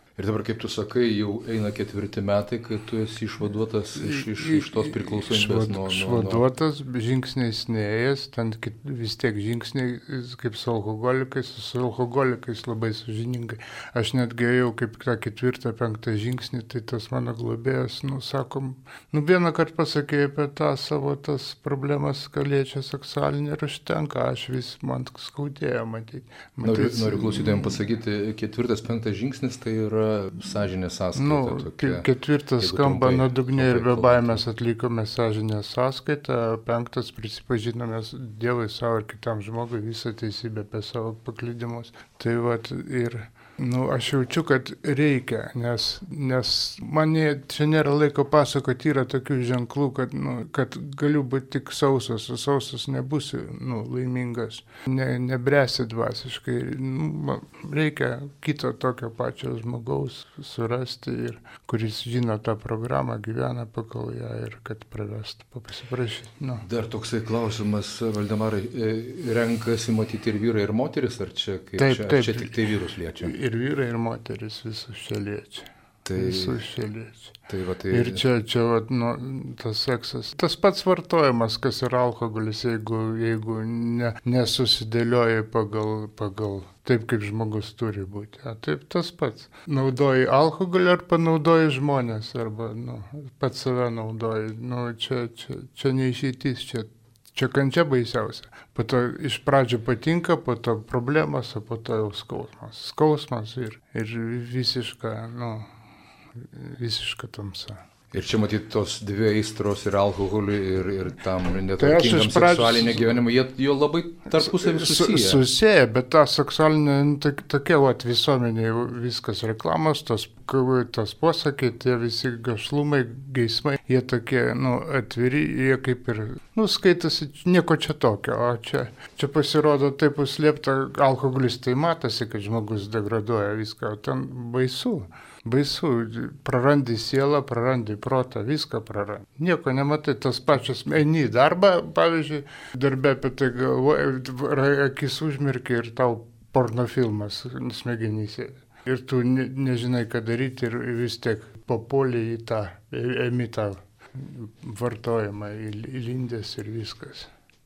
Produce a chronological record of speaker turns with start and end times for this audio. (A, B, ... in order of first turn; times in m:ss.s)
0:00.2-0:06.4 A
0:04.0-0:27.7 B
0:26.6-0:32.1 A
0:31.2-1:06.6 B
0:32.6-0:34.4 A
1:06.6-1:13.3 A
1:11.8-1:12.5 B
1:13.2-1:17.4 B
1:16.0-1:16.6 A
1:17.5-1:18.2 A
1:17.9-1:45.7 B
1:46.4-1:47.8 B
1:48.1-1:55.4 A
1:51.8-1:53.1 B
1:54.4-2:37.3 B